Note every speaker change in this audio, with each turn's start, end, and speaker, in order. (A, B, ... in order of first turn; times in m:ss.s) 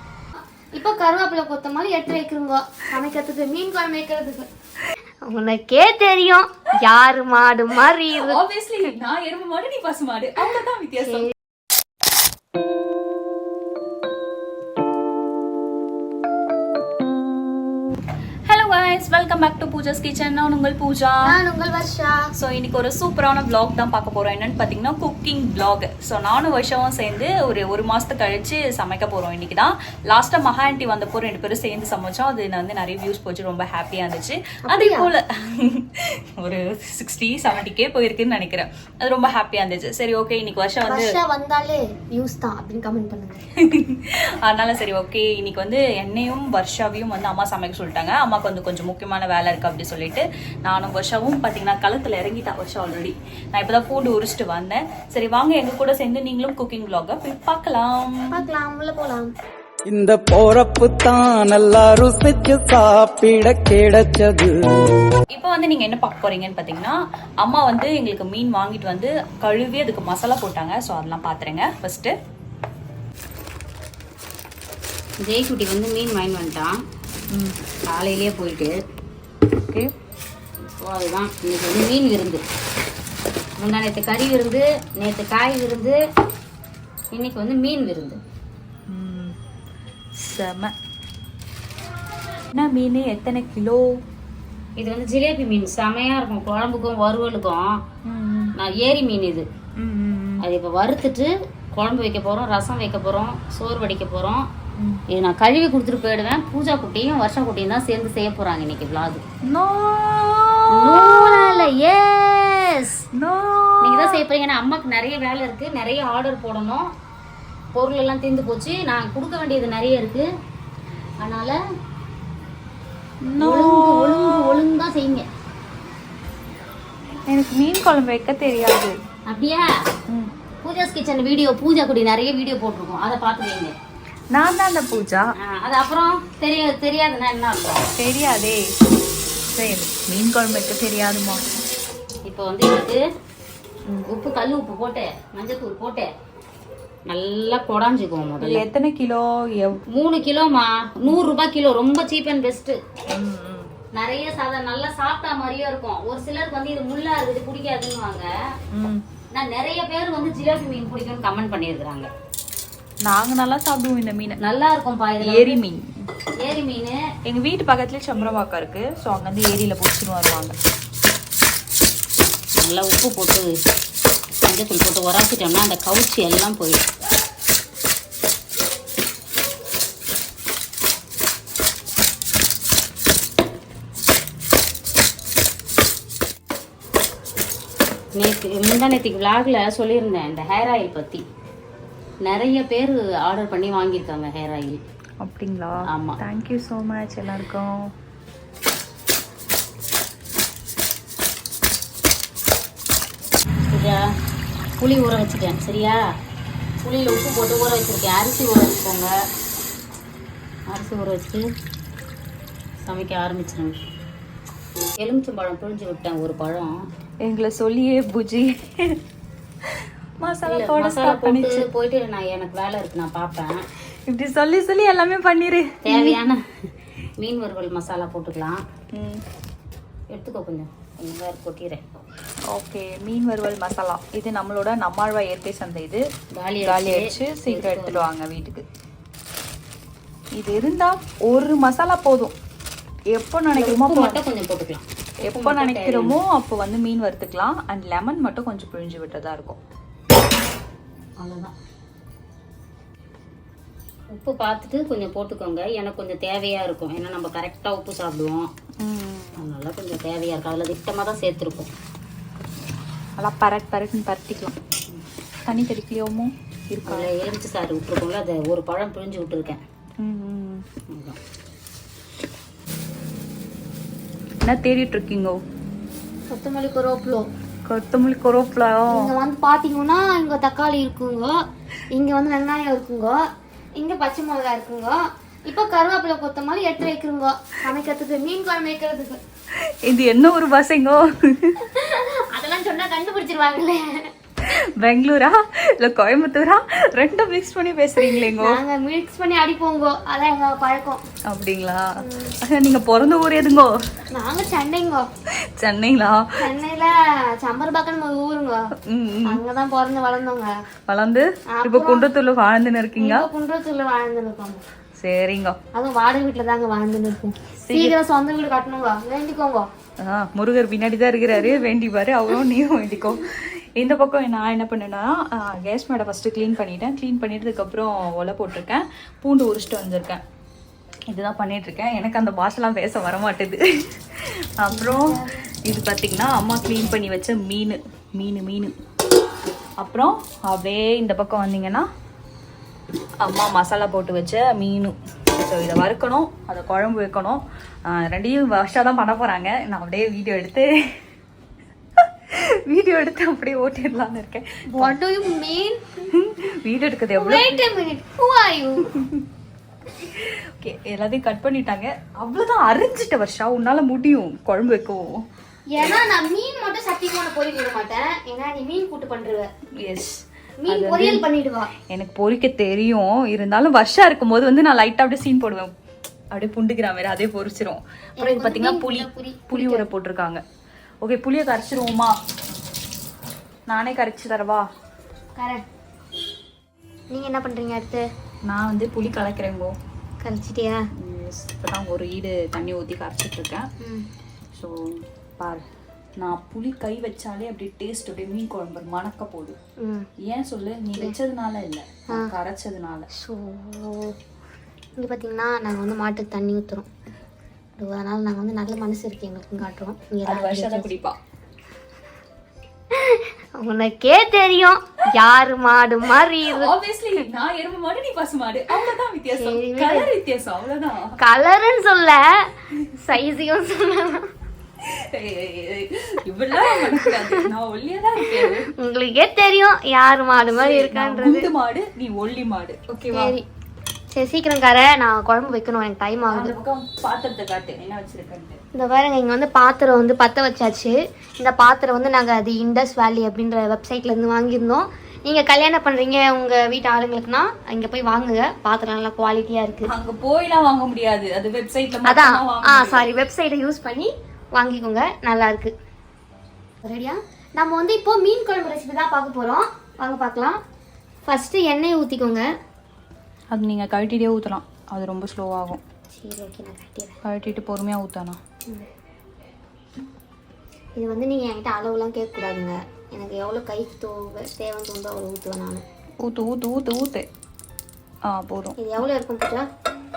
0:00.7-0:04.5 A
0:05.2-0:08.4 A
0:08.2-0:11.3 B
0:11.0-0:11.3 A
0:18.5-0:21.3 B
0:21.2-0:22.3 A
0:22.4-0:41.2 B
0:34.7-0:35.1 A
0:40.9-0:43.5 A
0:43.6-0:58.3 B
0:58.3-0:59.3 A
0:59.9-1:04.8 C
1:05.3-1:12.1 B
1:15.2-1:16.8 D
1:17.9-1:18.8 D
1:20.6-1:22.4 D
1:23.6-1:26.0 D
1:27.1-1:28.2 D
1:28.9-1:29.4 B
1:30.2-1:30.7 B
1:32.5-1:34.0 B
1:34.8-1:37.8 D
1:38.0-1:38.5 B
1:38.6-1:39.5 D
1:39.8-1:40.4 B
1:40.4-1:44.5 D
1:45.1-1:49.2 D
1:49.4-1:51.7 B
1:50.7-1:53.0 D
1:53.1-1:54.2 B
1:53.8-1:56.9 D
1:57.8-2:00.3 D
2:01.2-2:01.6 D
2:03.2-2:04.6 B
2:03.4-2:05.3 D
2:07.3-2:09.0 B
2:09.3-2:09.8 D
2:10.6-2:13.7 D
2:14.3-2:15.3 B
2:15.4-2:17.9 D
2:18.0-2:18.7 B
2:19.6-2:21.5 B
2:22.3-2:23.0 D
2:24.1-2:26.1 D
2:27.1-2:28.6 D
2:28.4-2:29.8 B
2:29.9-2:32.8 D
2:33.1-2:33.7 B
2:33.9-2:38.3 D
2:38.7-2:39.0 B
2:39.3-2:42.1 D
2:43.0-2:44.4 B
2:44.4-2:45.6 D
2:45.2-2:45.9 B
2:46.4-2:47.0 D
2:47.2-2:50.6 B
2:52.6-2:53.5 D
2:54.4-2:56.8 D
3:08.2-3:11.2 D
3:12.2-3:14.8 D
3:15.2-3:17.9 B
3:15.8-3:16.2 D
3:23.7-3:24.0 D
3:24.8-3:26.1 D
3:26.8-3:29.1 D
3:30.7-3:31.4 D
3:32.8-3:33.8 D
3:35.0-3:36.8 D
3:37.2-3:39.0 B
3:39.6-3:41.7 B
3:40.4-3:43.6 D
3:44.1-3:46.2 B
3:45.8-3:46.4 D
3:47.2-3:48.6 D
3:48.9-3:49.2 B
3:50.1-3:51.8 D
3:52.5-3:56.1 B
3:56.3-3:58.0 D
3:56.6-3:58.6 B
4:00.4-4:02.3 B
4:03.1-4:04.2 B
4:03.6-4:06.1 D
4:05.2-4:09.6 B
4:11.2-4:11.5 D
4:14.1-4:18.5 D
4:18.8-4:19.4 B
4:19.4-4:21.7 D
4:23.2-4:24.6 B
4:25.5-4:27.1 B
4:26.8-4:29.6 D
4:30.0-4:30.6 B
4:30.9-4:31.2 D
4:34.4-4:35.4 B
4:36.3-4:37.3 A
4:37.7-4:39.1 B
4:38.9-4:41.4 A
4:41.9-4:43.2 A
4:43.8-4:49.2 A
4:49.7-4:51.6 B
4:51.6-4:54.1 A
4:54.5-4:58.6 B
4:58.0-5:01.0 A
5:01.3-5:03.8 B
5:02.0-5:02.4 A
5:04.1-5:05.1 A
5:05.6-5:06.3 B
5:06.4-5:08.7 A
5:08.8-5:09.4 B
5:09.3-5:10.6 A
5:10.9-5:13.3 B
5:11.5-5:12.1 A
5:13.0-5:14.6 A
5:15.0-5:15.6 B
5:15.7-5:19.7 A
5:17.6-5:18.0 B
5:20.0-5:30.2 B
5:31.1-5:38.7 B
5:34.7-5:35.4 A
5:39.8-5:41.9 B
5:43.2-5:51.0 B
5:52.0-5:55.0 B
5:54.7-5:55.8 A
5:56.1-5:57.6 B
5:57.2-5:58.9 A
6:00.1-6:05.2 B
6:05.7-6:09.5 A
6:09.8-6:11.2 B
6:10.6-6:11.7 A
6:11.9-6:15.7 B
6:16.3-6:20.4 B
6:18.2-6:19.9 A
6:21.0-6:22.1 B
6:23.7-6:24.7 B
6:25.4-6:25.6 A
6:27.1-6:28.0 A
6:28.5-6:29.8 B
6:30.2-6:30.9 A
6:31.0-6:33.7 B
6:33.8-6:34.1 A
6:35.4-6:35.6 B
6:36.2-6:39.6 B
6:39.8-6:40.1 A
6:40.2-6:43.1 B
6:43.2-6:44.2 A
6:45.0-6:46.9 A
6:47.8-6:50.9 A
6:50.3-6:51.2 B
6:52.9-6:56.7 A
6:56.5-7:01.2 B
6:59.4-7:00.1 A
7:01.2-7:04.3 A
7:04.8-7:08.7 B
7:06.6-7:07.4 A
7:08.2-7:11.5 A
7:10.5-7:13.4 B
7:13.1-7:13.5 A
7:14.1-7:16.6 A
7:16.3-7:18.6 B
7:18.7-7:29.9 A
7:29.9-7:33.0 B
7:32.1-7:35.7 A
7:36.8-7:40.6 A
7:41.3-7:42.5 A
7:43.5-7:45.8 B
7:46.1-7:47.2 A
7:47.2-7:48.4 B
7:51.0-7:55.8 A
7:56.2-7:57.3 B
7:58.3-7:58.8 B
7:58.8-7:59.7 A